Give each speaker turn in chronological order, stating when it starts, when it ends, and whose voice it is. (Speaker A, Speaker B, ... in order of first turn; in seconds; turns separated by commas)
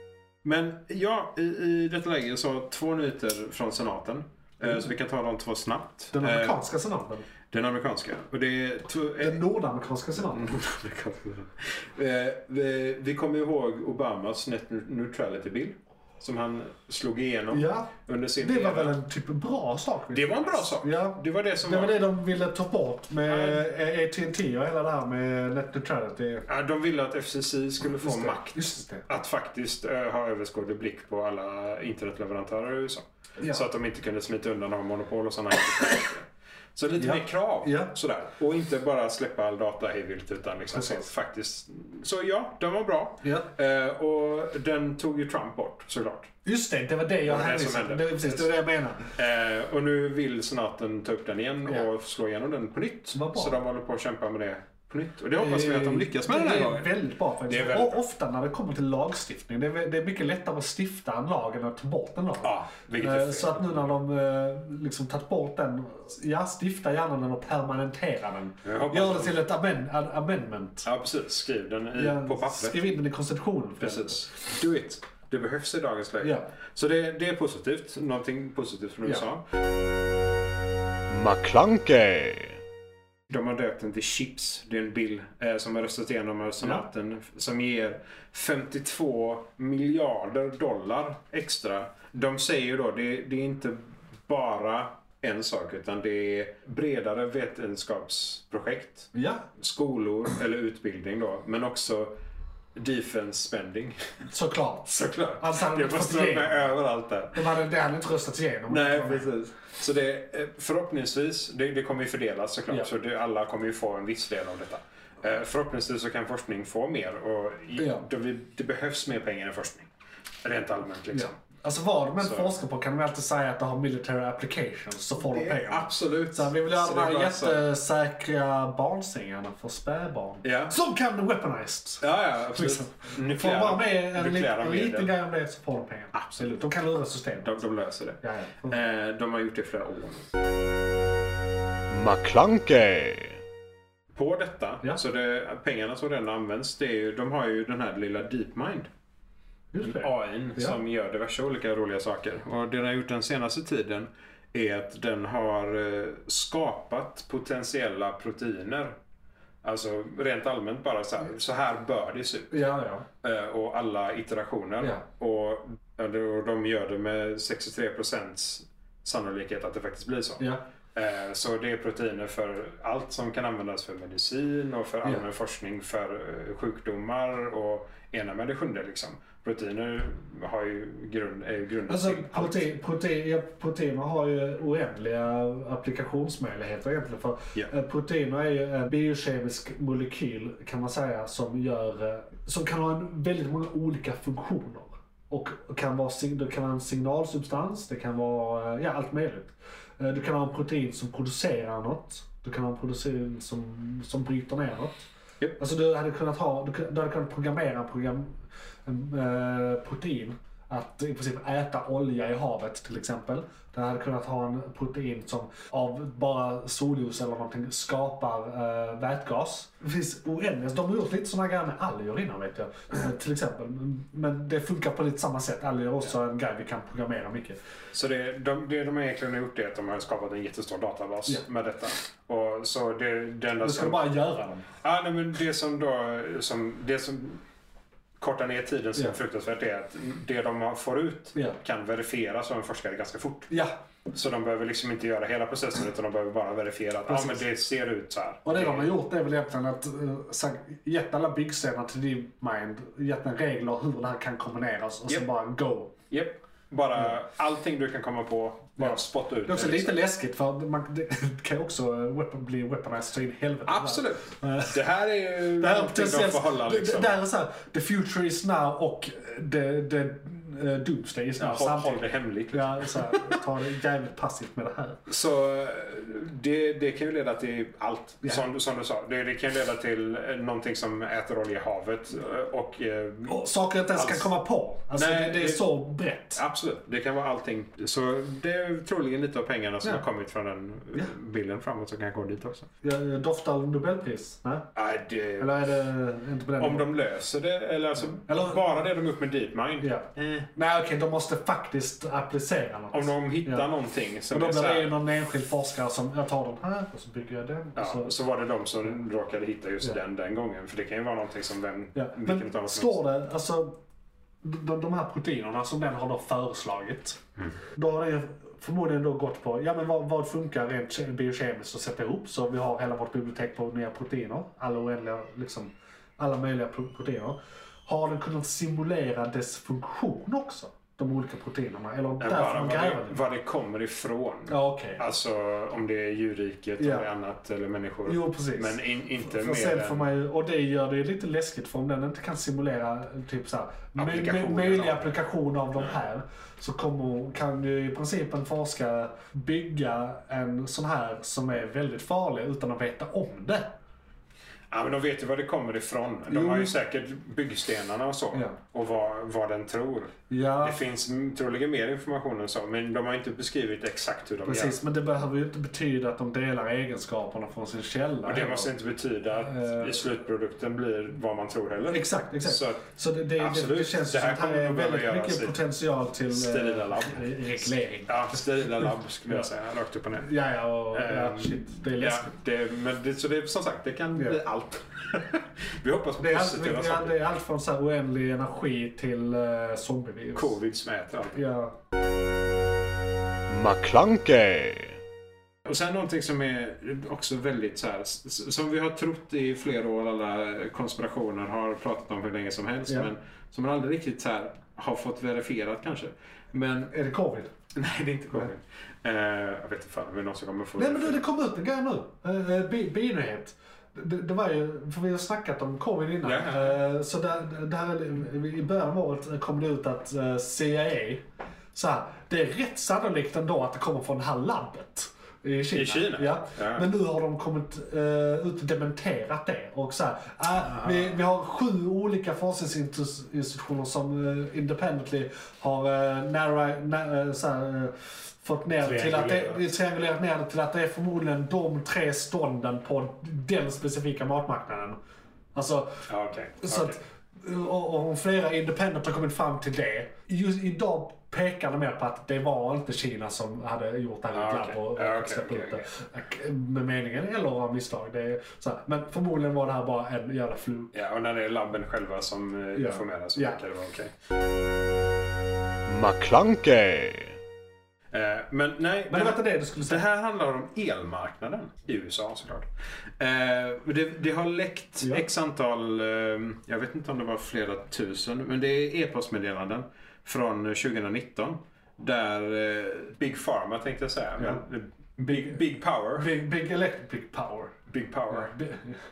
Speaker A: 0.4-6.6, Speaker B: 6.1-7.2, Speaker A: 7.5-9.4, Speaker B: 9.1-10.5, Speaker A: 10.1-18.9, Speaker B: 17.5-26.5, Speaker A: 20.1-22.0, Speaker A: 23.2-23.6, Speaker A: 26.5-46.3, Speaker B: 28.0-29.1, Speaker B: 37.0-37.9, Speaker B: 40.7-41.1, Speaker B: 43.2-43.5, Speaker B: 46.4-49.1, Speaker A: 47.3-48.5, Speaker A: 49.1-57.0, Speaker B: 53.1-53.5, Speaker B: 55.4-70.9, Speaker A: 57.5-58.0, Speaker A: 62.4-63.9, Speaker A: 68.6-69.4, Speaker A: 70.8-72.9, Speaker B: 72.0-74.2, Speaker A: 73.8-79.4, Speaker B: 76.2-76.5, Speaker C: 81.1-82.6, Speaker A: 83.3-102.2, Speaker B: 99.1-99.5, Speaker A: 102.8-104.3, Speaker B: 104.3-106.7, Speaker A: 104.9-107.5, Speaker B: 107.3-109.3, Speaker A: 108.7-119.9, Speaker B: 117.8-118.0, Speaker A: 120.4-121.3, Speaker B: 121.1-137.6, Speaker A: 122.2-122.5, Speaker A: 125.2-127.6, Speaker A: 130.4-130.7, Speaker A: 132.0-135.1, Speaker A: 136.1-136.5, Speaker A: 137.4-140.2, Speaker B: 138.2-138.8, Speaker C: 141.9-143.4, Speaker A: 144.1-148.9, Speaker B: 149.7-150.8, Speaker A: 149.8-158.9, Speaker A: 159.6-162.6, Speaker B: 162.5-163.0, Speaker A: 163.2-182.7, Speaker B: 181.9-205.0, Speaker B: 205.6-227.6, Speaker A: 227.9-234.1, Speaker B: 233.6-234.6, Speaker A: 234.8-237.4, Speaker A: 238.2-243.5, Speaker B: 243.5-243.8, Speaker A: 244.1-248.9, Speaker B: 247.1-247.4, Speaker B: 248.4-255.9, Speaker A: 256.1-259.9, Speaker B: 258.8-264.8, Speaker A: 263.7-267.2, Speaker B: 265.6-275.0, Speaker A: 271.4-273.4, Speaker A: 275.1-283.4, Speaker B: 283.2-286.4, Speaker A: 283.9-284.3, Speaker A: 284.9-285.7, Speaker A: 286.4-292.7, Speaker B: 292.8-294.7, Speaker A: 294.7-295.5, Speaker B: 295.4-296.9, Speaker A: 296.6-300.5, Speaker B: 298.2-298.7, Speaker B: 299.8-303.7, Speaker A: 302.9-304.9, Speaker B: 304.3-308.1, Speaker A: 307.8-313.0, Speaker B: 311.9-313.8, Speaker B: 314.4-317.2, Speaker B: 317.7-333.2, Speaker A: 332.2-340.1, Speaker B: 334.5-335.0, Speaker B: 336.8-337.1, Speaker B: 338.1-353.8, Speaker A: 343.9-345.2, Speaker A: 354.7-364.8, Speaker B: 356.3-356.7, Speaker B: 360.3-360.8, Speaker B: 364.4-368.7, Speaker A: 368.2-372.8, Speaker B: 369.4-370.0, Speaker B: 371.9-378.4, Speaker A: 373.4-375.6, Speaker A: 376.3-380.3, Speaker B: 380.2-382.3, Speaker A: 380.9-387.2, Speaker B: 386.2-390.6, Speaker A: 390.3-391.4, Speaker B: 391.3-391.7, Speaker C: 393.5-395.0, Speaker A: 395.6-406.9, Speaker B: 406.9-407.5, Speaker A: 407.7-411.2, Speaker B: 410.8-445.0, Speaker A: 416.2-416.8, Speaker A: 425.7-426.9, Speaker A: 430.7-431.1, Speaker A: 438.8-439.7, Speaker B: 445.5-446.1, Speaker A: 446.1-447.0, Speaker B: 446.6-460.9, Speaker A: 454.3-455.8, Speaker A: 460.9-464.1, Speaker B: 462.7-463.6, Speaker C: 465.9-467.4, Speaker A: 468.1-472.7, Speaker B: 469.1-470.0, Speaker A: 473.2-486.3, Speaker B: 485.2-485.6, Speaker B: 486.1-487.8, Speaker A: 487.9-488.5, Speaker B: 488.3-489.0